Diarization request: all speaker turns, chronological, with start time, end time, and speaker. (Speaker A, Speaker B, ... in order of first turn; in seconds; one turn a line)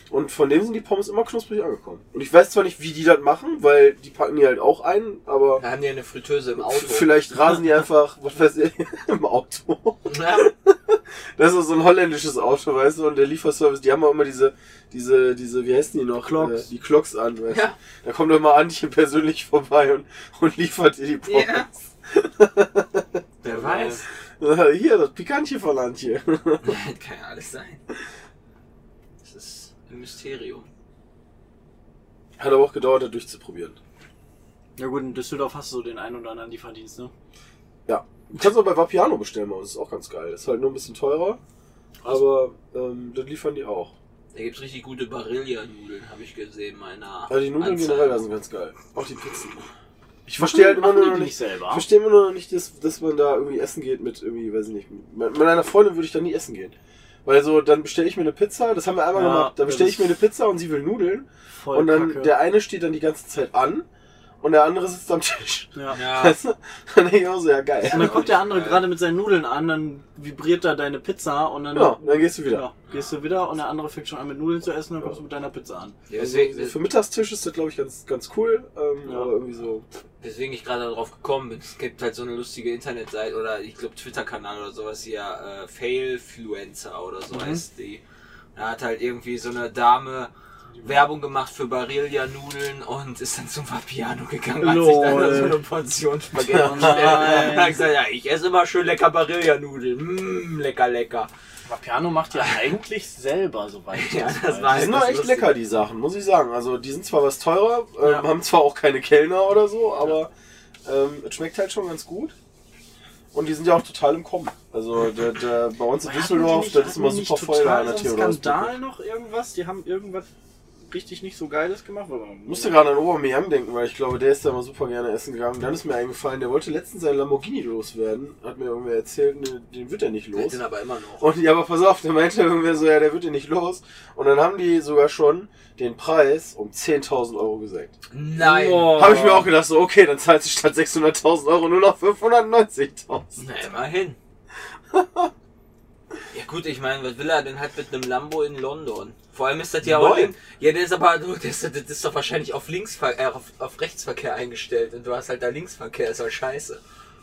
Speaker A: 0.1-5.6
Speaker B: 5.6-7.1
Speaker A: 6.7-26.8
Speaker B: 10.1-10.5
Speaker C: 16.3-16.7
Speaker B: 17.5-17.8
Speaker B: 21.2-21.7
Speaker B: 23.4-24.0
Speaker B: 26.6-27.8
Speaker B: 29.2-30.7
Speaker A: 32.4-33.8
Speaker C: 34.8-37.1
Speaker A: 37.9-41.4
Speaker A: 42.0-43.9
Speaker B: 44.3-48.2
Speaker A: 47.3-49.6
Speaker C: 50.3-51.9
Speaker A: 50.3-63.9
Speaker C: 59.1-60.1
Speaker C: 61.5-62.3
Speaker A: 64.4-68.3
Speaker B: 65.9-66.4
Speaker B: 67.8-68.8
Speaker C: 67.9-76.0
Speaker A: 71.7-72.7
Speaker B: 76.1-76.8
Speaker A: 76.1-79.8
Speaker C: 79.0-79.3
Speaker B: 80.2-88.0
Speaker C: 87.3-87.6
Speaker B: 88.5-90.3
Speaker B: 90.8-101.3
Speaker C: 94.6-95.6
Speaker A: 96.4-97.6
Speaker C: 96.5-97.8
Speaker C: 101.7-104.8
Speaker B: 103.9-105.6
Speaker A: 104.6-110.3
Speaker A: 110.8-112.3
Speaker A: 113.3-118.7
Speaker C: 116.0-120.3
Speaker C: 120.8-122.8
Speaker A: 122.5-130.6
Speaker B: 130.3-131.3
Speaker A: 131.2-143.3
Speaker B: 138.1-139.5
Speaker B: 143.4-144.2
Speaker A: 144.9-145.3
Speaker B: 146.3-156.8
Speaker A: 149.8-150.3